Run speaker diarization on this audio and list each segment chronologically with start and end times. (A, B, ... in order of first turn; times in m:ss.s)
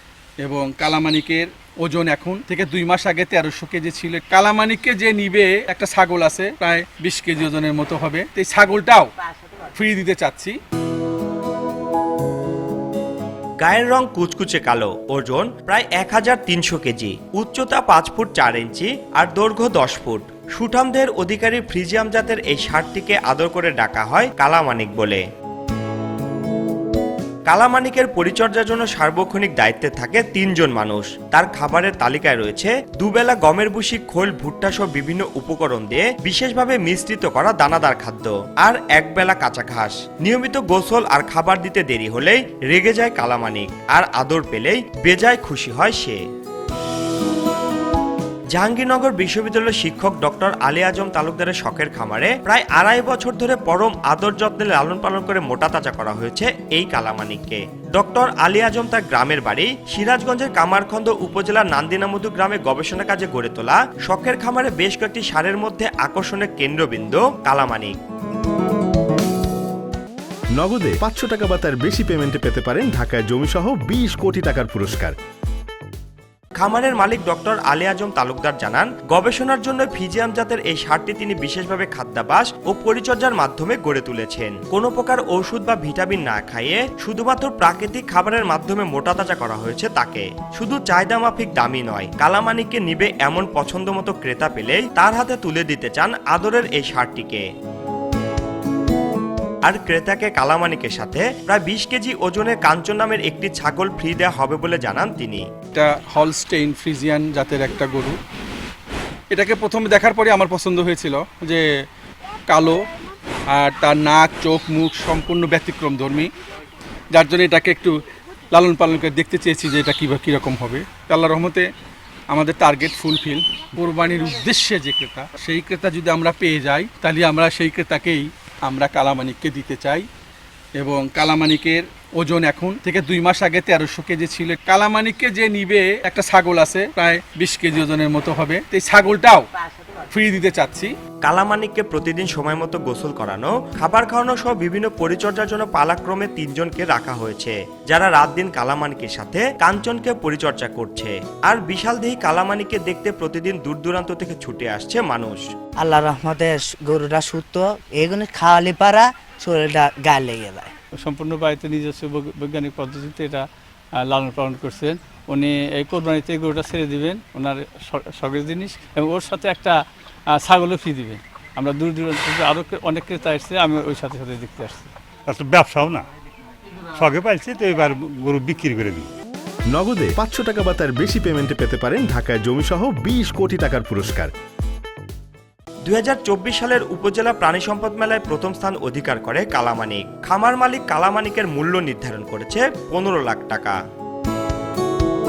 0:00.4-0:09.1 A
0:09.7-0:10.6 A
0:13.6-0:25.2 B
0:27.5-0:46.2 B
0:48.6-1:08.0 B
1:10.6-1:15.1 C
1:16.6-1:37.4 B
1:39.7-1:45.4 B
1:45.7-1:48.2 A
1:49.3-1:51.6 A
1:52.5-1:52.8 A
1:53.5-1:56.3 A
1:57.1-1:58.0 A
1:58.5-2:01.7 A
2:02.3-2:10.1 A
2:10.8-2:20.9 A
2:21.2-2:35.4 B
2:35.8-2:40.7 D
2:41.0-2:43.4 E
2:44.0-2:49.8 E
2:50.3-2:54.9 E
2:55.3-2:56.1 F
2:57.0-2:59.1 F
2:59.7-3:04.3 C
3:05.8-3:13.8 B